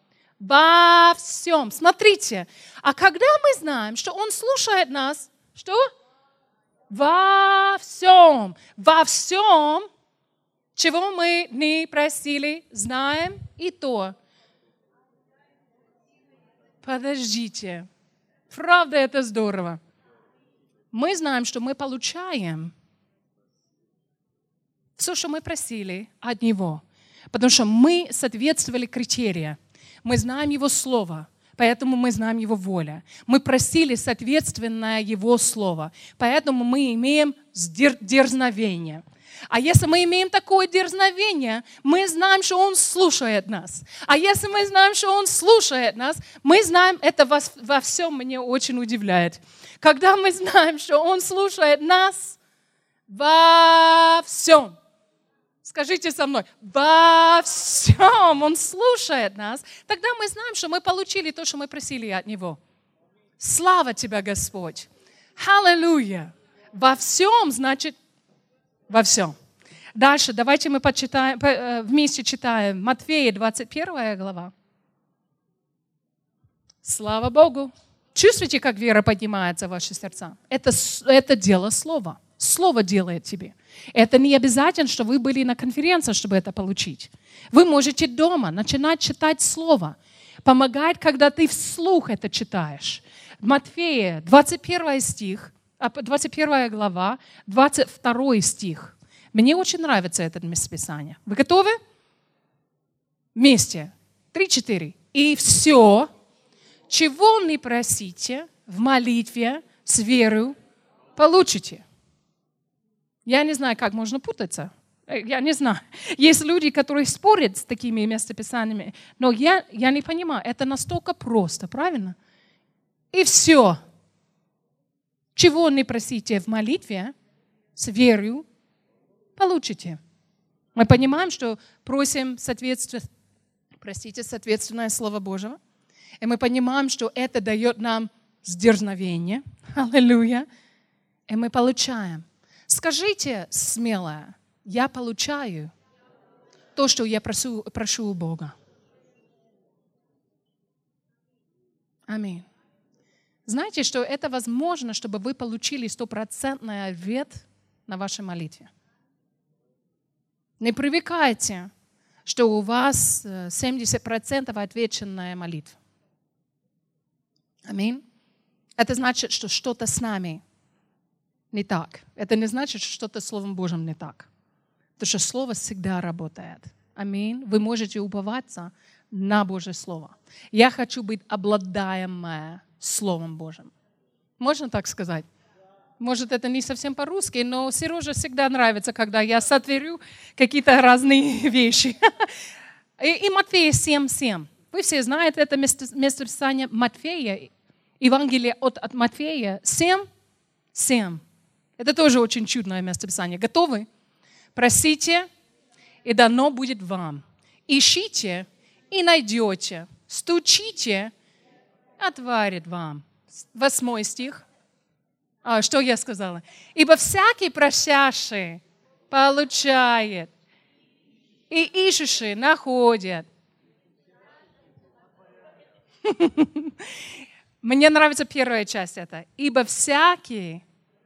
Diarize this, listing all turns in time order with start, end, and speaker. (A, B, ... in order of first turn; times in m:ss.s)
0:00.4-0:05.8 A
0:06.9-0:09.9 A
0:10.7-0:14.1 A
0:16.8-0:17.9 A
0:18.5-0:19.8 A
0:20.9-0:22.7 A
0:25.0-0:52.4 A
0:53.1-0:54.8 A
0:55.6-1:02.6 A
1:03.4-1:07.9 A
1:08.9-1:09.3 A
1:09.9-1:14.5 A
1:16.8-1:41.7 A
1:43.3-1:46.1 A
1:46.9-1:50.5 A
1:51.2-1:51.8 A
1:53.2-2:02.2 A
2:03.1-2:03.8 A
2:05.3-2:07.1 A
2:07.7-2:08.4 A
2:09.4-2:10.0 A
2:10.7-2:13.0 A
2:13.8-2:15.6 A
2:16.2-2:20.5 A
2:21.3-2:25.7 A
2:26.8-2:28.5 A
2:32.1-2:32.5 A
2:33.4-2:38.7 A
2:40.6-2:41.7 A
2:42.2-2:45.8 A
2:47.6-2:48.0 A
2:48.8-2:50.4 A
2:51.5-2:54.3 A
2:55.0-3:03.7 A
3:04.4-3:05.2 A
3:06.0-3:12.3 A
3:13.0-3:20.0 A
3:20.7-3:21.2 A
3:21.8-3:23.9 A
3:24.5-3:25.3 A
3:26.0-3:31.1 A
3:32.0-3:34.4 A
3:35.4-3:40.3 A
3:41.5-3:43.3 A
3:46.0-3:47.0 A
3:47.6-3:50.6 A